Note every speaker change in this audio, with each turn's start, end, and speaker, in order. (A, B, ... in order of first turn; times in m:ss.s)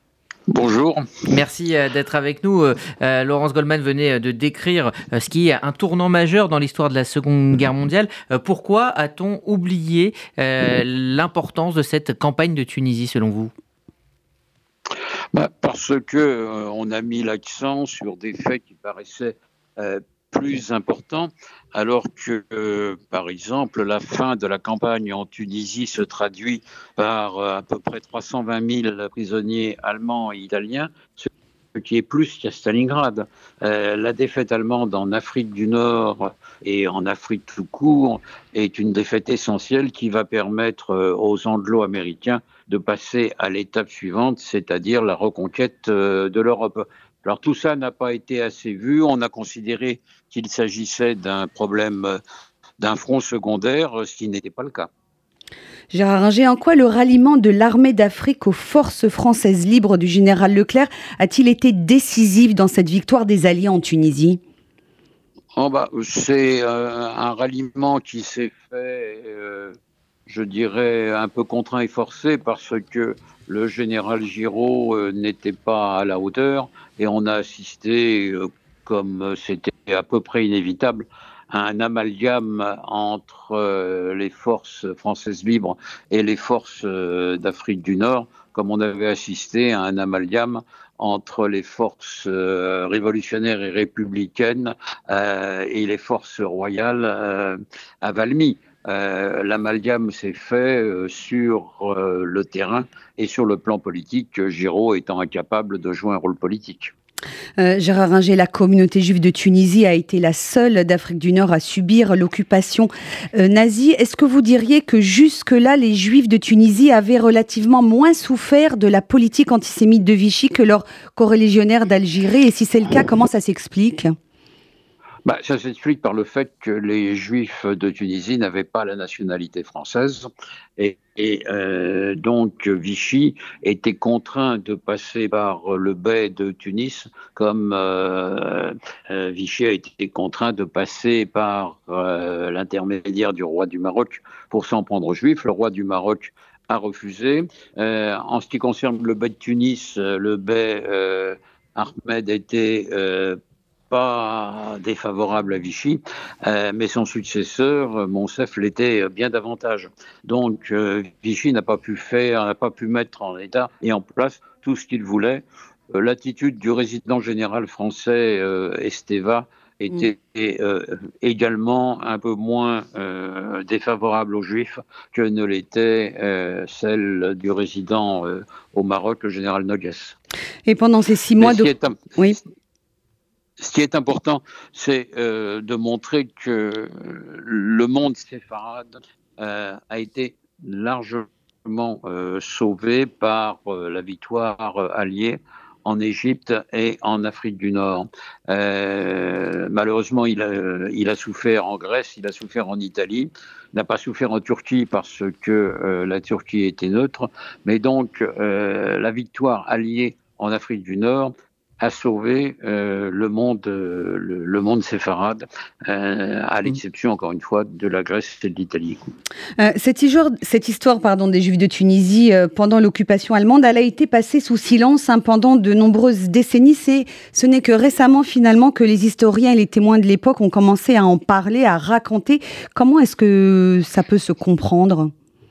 0:00.5-0:01.2 A
0:01.3-0:13.5 B
0:15.3-0:52.2 A
0:52.8-0:54.9 A
0:55.9-1:04.4 C
1:05.6-1:09.8 A
1:10.3-1:46.9 A
1:47.6-2:04.1 C
2:05.3-2:33.4 A
2:33.9-3:00.2 A
3:00.7-3:02.4 C
3:01.4-3:02.0 A
3:03.6-3:39.2 A
3:39.6-3:55.1 C